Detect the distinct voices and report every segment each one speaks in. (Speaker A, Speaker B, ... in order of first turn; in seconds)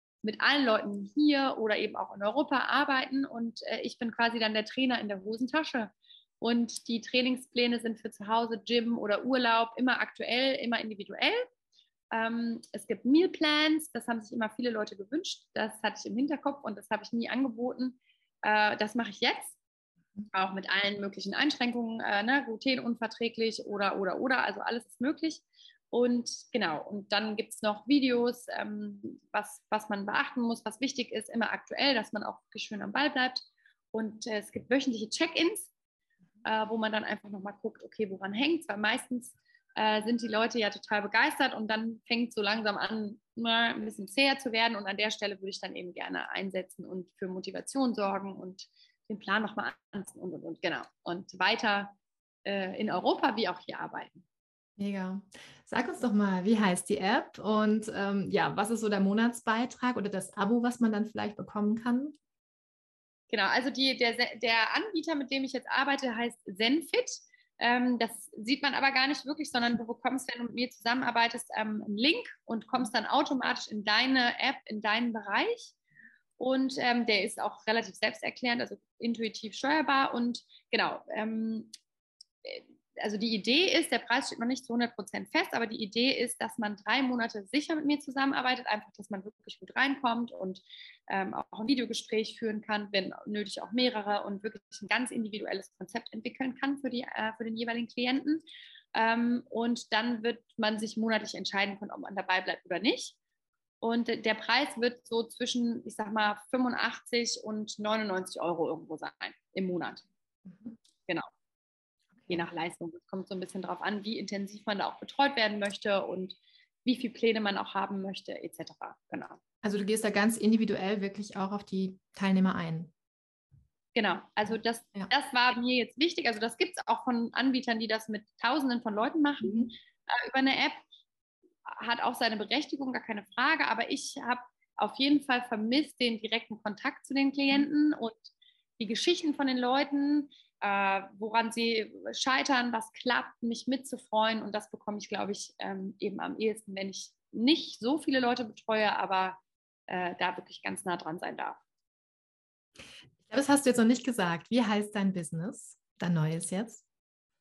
Speaker A: 0.2-11.4, 12.1-19.6, 20.3-35.7, 36.4-54.2, 63.3-75.7, 76.4-81.7, 82.4-98.4, 98.9-103.2, 103.8-110.0, 112.3-119.4, 123.9-130.8, 131.7-151.6
Speaker B: 54.8-62.1, 110.4-110.8, 112.1-112.5, 119.6-122.9, 129.4-129.7, 153.2-156.8